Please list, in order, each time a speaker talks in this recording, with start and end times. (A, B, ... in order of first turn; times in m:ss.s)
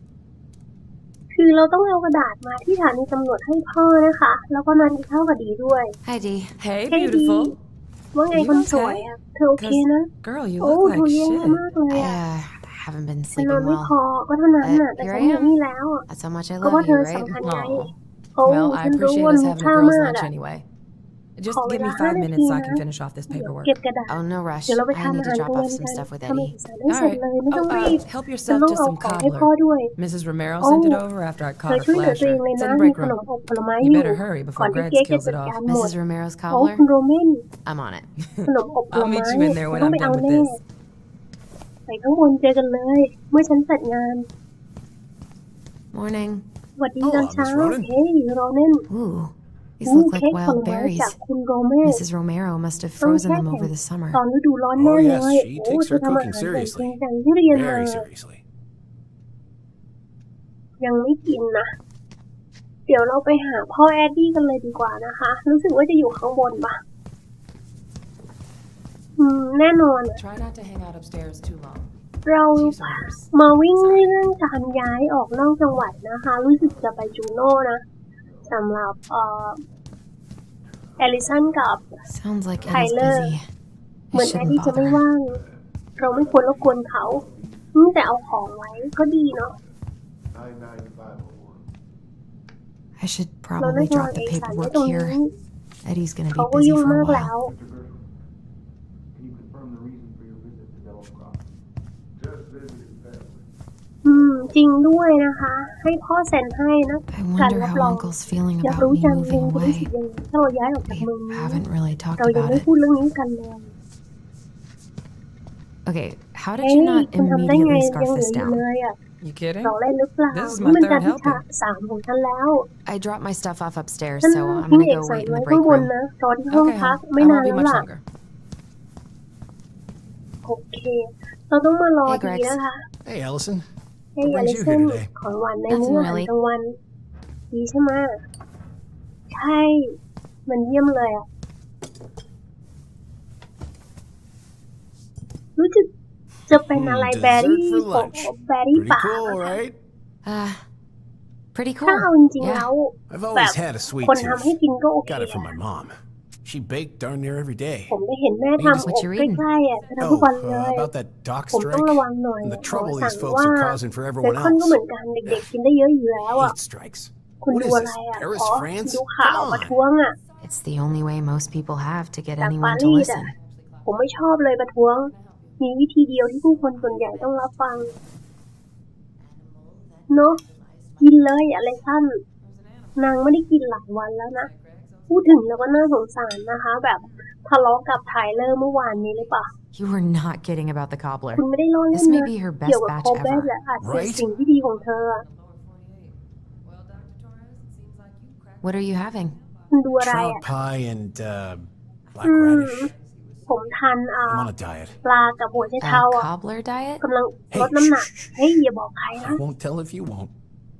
0:01.3-0:06.0 A
0:06.0-0:06.6 B
0:06.6-0:07.6 C
0:06.9-0:07.6 A
0:08.1-0:12.2 A
0:08.3-0:09.1 C
0:09.6-0:11.6 C
0:11.9-0:13.9 B
0:13.4-0:16.1 A
0:14.6-0:15.6 B
0:16.1-0:17.4 B
0:16.6-0:20.3 A
0:17.4-0:20.6 C
0:21.4-0:23.8 C
0:21.5-0:24.2 A
0:24.1-0:26.6 B
0:24.7-0:29.9 A
0:26.9-0:33.2 C
0:30.6-0:31.0 A
0:31.7-0:36.0 A
0:33.8-0:35.6 C
0:35.6-0:36.8 B
0:36.5-0:37.4 A
0:37.6-0:38.1 B
0:38.5-0:40.6 A
0:38.9-0:40.6 C
0:41.9-0:44.3 A
0:45.9-0:46.4 B
0:46.8-0:48.9 A
0:47.0-0:47.9 D
0:48.9-0:51.2 B
0:49.8-0:52.0 A
0:51.8-0:54.2 B
0:53.0-0:58.1 A
0:54.8-0:57.0 D
0:57.5-0:58.4 D
1:00.8-1:01.7 A
1:02.9-1:06.8 A
1:09.2-1:10.2 A
1:10.2-1:11.9 C
1:12.2-1:17.8 A
1:12.6-1:14.2 C
1:18.4-1:19.6 A
1:21.0-1:21.9 A
1:22.1-1:23.5 B
1:22.7-1:23.3 A
1:24.1-1:25.0 B
1:24.1-1:25.4 A
1:26.0-1:27.2 A
1:26.2-1:27.7 E
1:27.7-1:29.6 A
1:30.4-1:31.6 E
1:33.0-1:35.2 B
1:33.6-1:35.3 A
1:35.8-1:37.4 B
1:36.3-1:37.5 A
1:37.5-1:38.0 E
1:39.2-1:41.4 E
1:42.2-1:43.4 E
1:44.0-1:48.1 A
1:47.1-1:49.9 B
1:48.6-1:51.6 A
1:50.9-1:52.7 B
1:52.2-1:53.7 A
1:55.9-1:58.6 B
1:56.6-1:59.0 A
1:59.2-1:59.7 C
1:59.6-2:02.7 A
2:00.3-2:01.4 C
2:02.9-2:05.9 B
2:04.2-2:07.8 A
2:06.5-2:08.0 C
2:10.4-2:12.8 A
2:12.1-2:12.6 B
2:13.0-2:13.6 D
2:14.2-2:16.8 A
2:14.2-2:15.1 D
2:15.7-2:16.3 B
2:17.5-2:18.2 A
2:19.3-2:20.0 A
2:20.5-2:21.2 A
2:25.6-2:25.9 A
2:26.5-2:29.6 A
2:26.5-2:29.8 D
2:30.3-2:30.6 B
2:31.6-2:32.7 B
2:31.8-2:35.6 A
2:33.1-2:34.5 D
2:35.1-2:38.0 D
2:37.9-2:40.9 A
2:38.6-2:38.9 D
2:38.7-2:39.5 B
2:40.0-2:45.4 D
2:41.5-2:46.6 A
2:46.3-2:49.8 D
2:47.4-2:50.2 A
2:50.4-2:53.3 B
2:52.4-2:53.3 A
2:53.9-2:57.9 A
3:00.1-3:00.4 A
3:01.0-3:02.2 A
3:03.0-3:04.5 A
3:05.1-3:09.5 A
3:09.7-3:13.5 B
3:11.3-3:15.2 A
3:13.8-3:14.2 D
3:18.6-3:19.4 B
3:19.7-3:20.4 A
3:20.0-3:22.9 D
3:22.2-3:22.9 A
3:23.5-3:24.5 A
3:24.3-3:25.0 D
3:25.0-3:26.3 A
3:25.8-3:27.0 B
3:27.0-3:29.4 A
3:27.5-3:28.4 D
3:29.2-3:30.3 D